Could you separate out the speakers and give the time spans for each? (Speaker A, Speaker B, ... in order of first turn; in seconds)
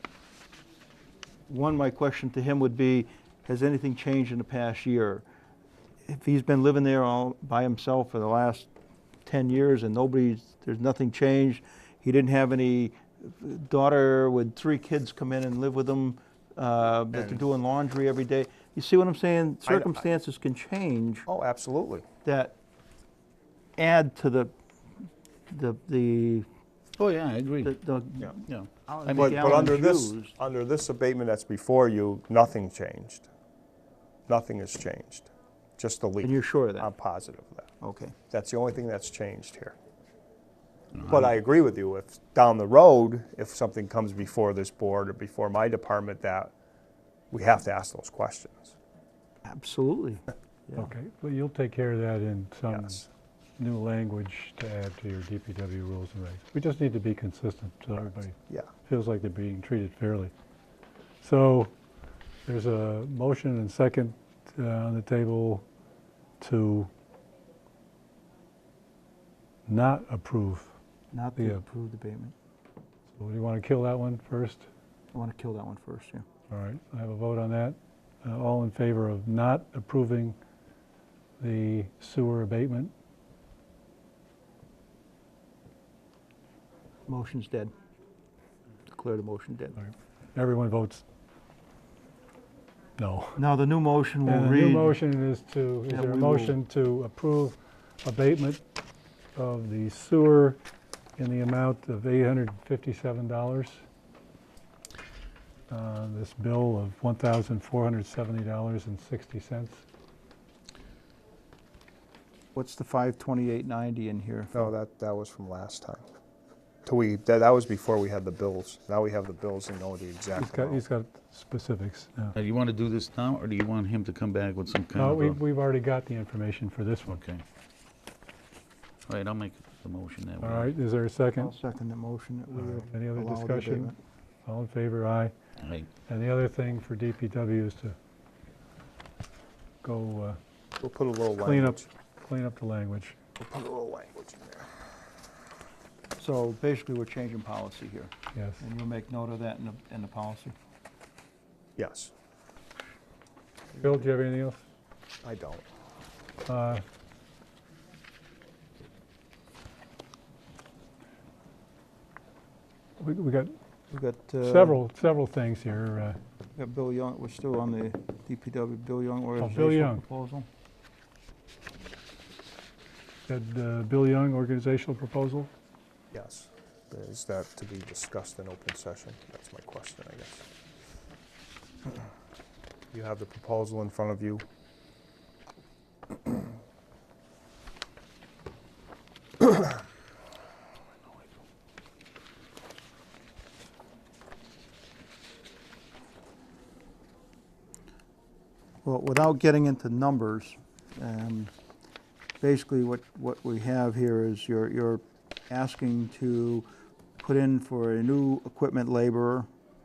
Speaker A: 1.5-5.2, 6.0-8.7, 9.3-21.3, 22.2-22.6, 23.8-24.5, 25.5-26.5, 27.6-30.4, 36.2-36.9, 37.8-38.1, 49.5-50.9, 71.1-72.3, 75.1-76.3, 87.1-87.7, 88.9-89.8, 93.4-95.0, 95.9-96.6, 112.5-114.7, 131.4-134.0, 146.2-150.6, 163.9-164.8, 166.6-170.5, 198.8-201.5, 202.4-206.7, 207.2-209.5
Speaker B: 17.1-17.4, 19.7-19.9, 21.3-22.1, 29.1-33.3, 34.3-37.7, 38.3-39.8, 41.0-46.5, 47.3-48.8, 52.7-53.0, 114.5-116.0, 116.9-120.8, 140.8-141.9, 143.4-144.7, 151.8-152.1, 155.2-155.7, 176.1-180.5, 182.9-184.4
Speaker C: 27.0-27.7, 28.4-29.6, 122.3-125.4, 127.1-127.4, 129.1-130.7, 135.6-135.9
Speaker D: 50.8-53.0, 53.6-60.3, 61.2-61.7, 62.5-65.7, 66.4-66.9, 69.7-70.7, 73.2-74.7, 76.5-80.4, 81.4-82.9, 90.3-91.0, 93.0-93.4, 94.2-98.6, 99.3-100.6, 101.2-103.8, 105.7-109.8, 120.4-122.3, 125.0-127.2, 130.4-131.5, 132.5-133.9, 134.5-135.3, 136.1-137.9, 139.8-140.4, 141.4-143.2, 148.3-148.6, 153.8-154.6, 156.5-156.8, 163.0-163.5, 164.4-166.2, 169.4-170.0, 173.3-175.5